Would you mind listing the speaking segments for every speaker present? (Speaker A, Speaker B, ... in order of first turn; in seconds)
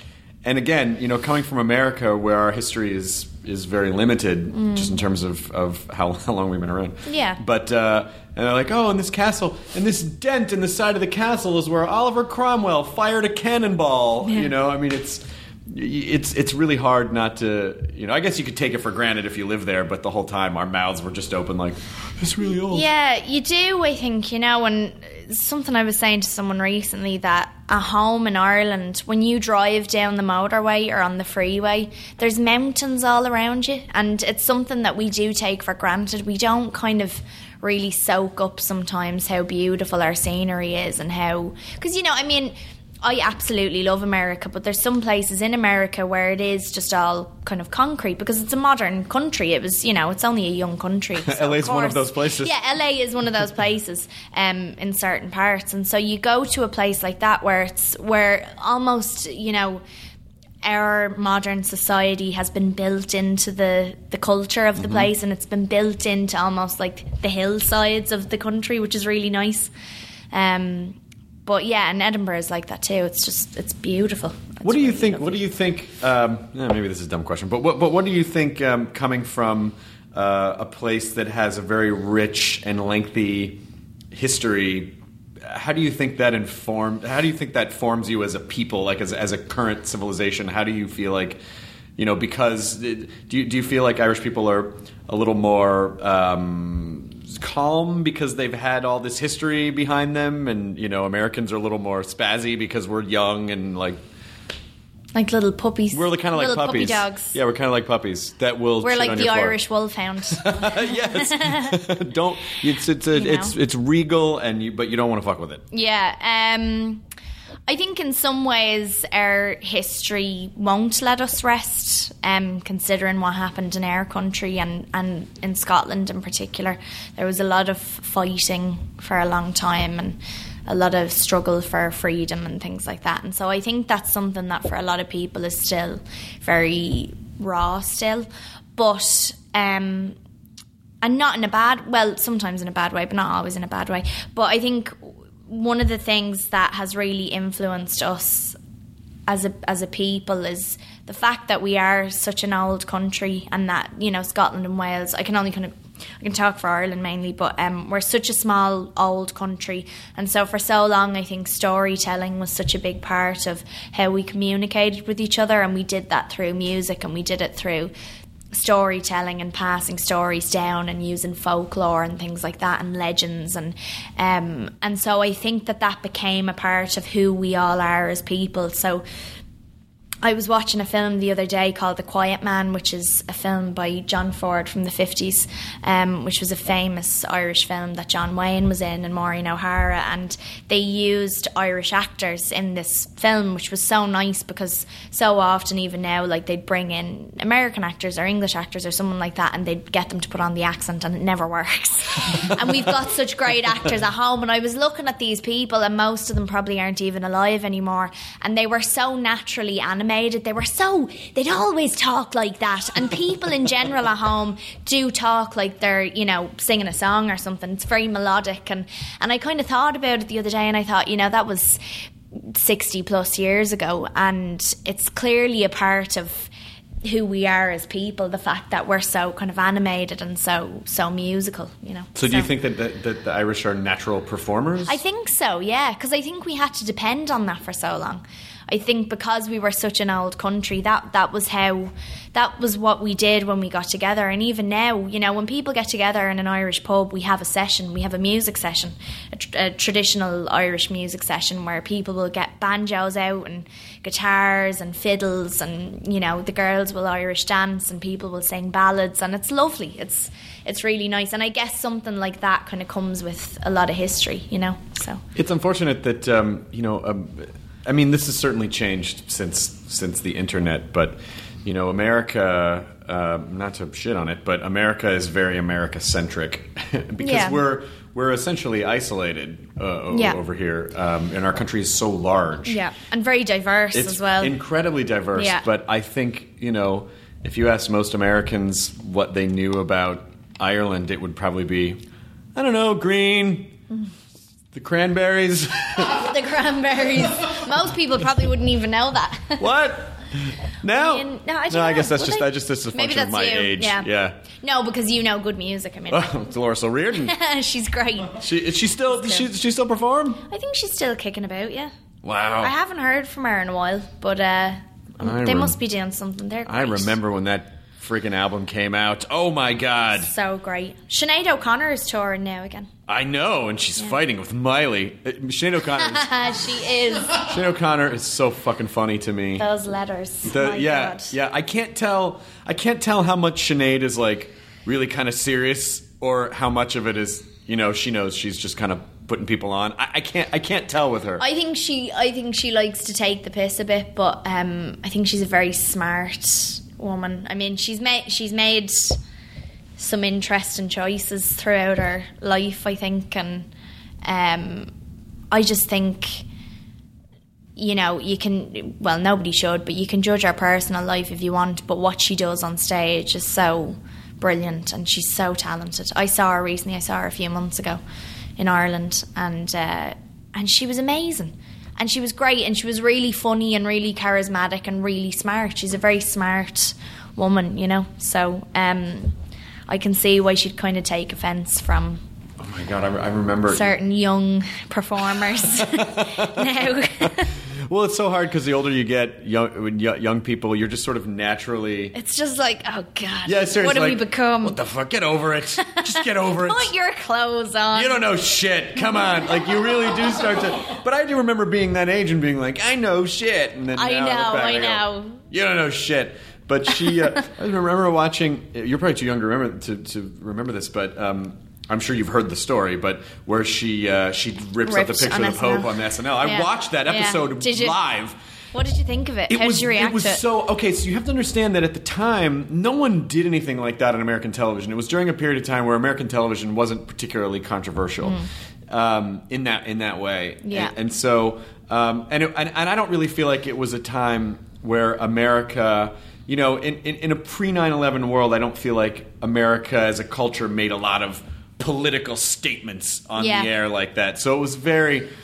Speaker A: 0.4-22.9, 51.2-52.5, 64.8-65.1, 74.6-83.6, 84.1-91.4, 92.0-104.0, 105.9-109.6, 110.3-115.6, 232.2-235.0, 265.4-282.8, 283.9-292.0, 292.5-293.8, 294.7-296.4, 299.6-304.4, 306.1-307.4, 308.4-310.4, 312.2-312.7, 315.2-315.8, 316.7-320.3, 323.1-326.3, 327.4-329.7, 330.5-341.4, 382.6-383.9, 385.8-386.5, 387.9-392.1, 393.4-396.9, 397.9-418.4, 419.5-428.4, 428.9-445.3
Speaker B: 4.5-5.0, 7.1-7.4, 14.2-14.5, 22.7-59.8, 60.6-69.7, 70.3-75.4, 105.2-107.3, 108.8-111.8, 113.1-113.5, 115.7-117.0, 117.7-140.2, 141.0-148.6, 149.3-167.9, 168.5-179.1, 180.2-221.8, 222.3-226.5, 227.0-232.5, 234.9-265.2, 277.2-277.6, 280.1-280.4, 282.7-284.6, 285.4-285.6, 296.0-299.7, 300.9-306.5, 307.1-309.5, 310.5-311.9, 312.6-317.1, 320.2-322.9, 326.0-327.5, 329.6-331.3, 341.4-349.2, 350.0-353.7, 354.2-354.9, 355.5-356.4, 357.8-368.0, 368.6-379.4, 379.9-382.2, 383.7-387.5, 392.1-394.8, 395.9-398.2, 399.0-399.7, 403.9-405.4, 414.9-418.0, 418.7-420.4, 428.2-428.5, 430.6-430.9, 443.4-443.7